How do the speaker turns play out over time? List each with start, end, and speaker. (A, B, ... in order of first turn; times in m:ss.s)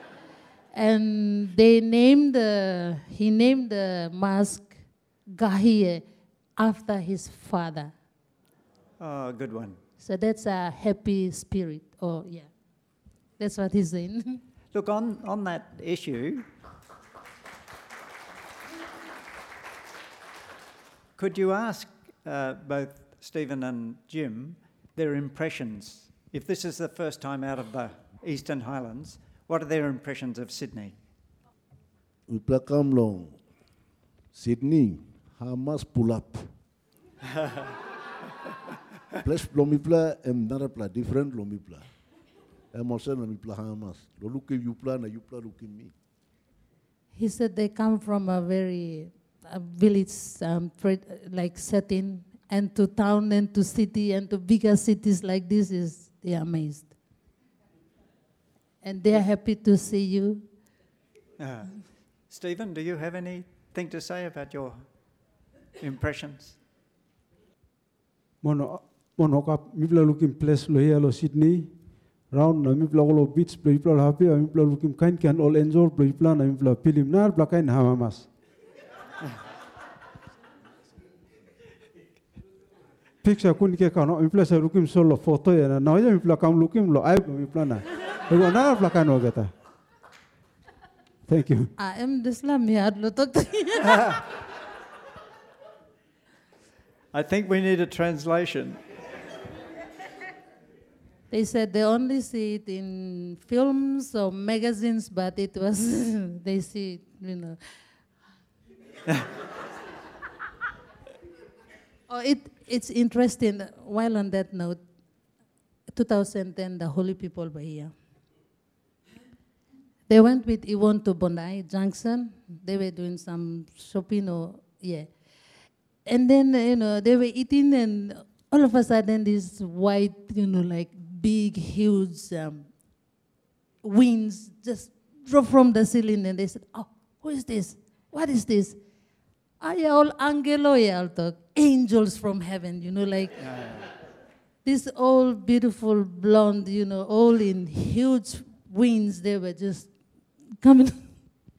0:00.7-0:06.0 A
0:06.6-0:07.9 A
0:09.0-0:09.8 B
0:10.0-0:12.5 A
0:13.4-0:14.4 A
0:14.7-0:16.5 B
0:21.2-0:31.0 B
0:32.3-0:33.4 C
0:34.3-0:36.5 C
0:39.2-0:41.8 C
0:42.7-0:45.9 C
0:47.1-0:56.9 A
0:58.8-1:00.5 A
1:01.4-1:04.8 B
1:05.8-1:06.6 B
1:08.4-1:11.7 D
1:12.3-1:18.3 D
1:23.2-1:29.5 D
1:31.3-1:31.7 D
1:31.8-1:34.0 A
1:37.1-1:38.8 B
1:41.3-1:47.6 A
1:52.1-1:54.8 A
1:55.9-1:57.9 A
2:00.1-2:05.1 A
2:06.0-2:12.7 A
2:13.8-2:18.8 A
2:19.6-2:23.5 A
2:23.4-2:23.9 B
2:24.6-2:29.9 A
2:30.6-2:31.2 A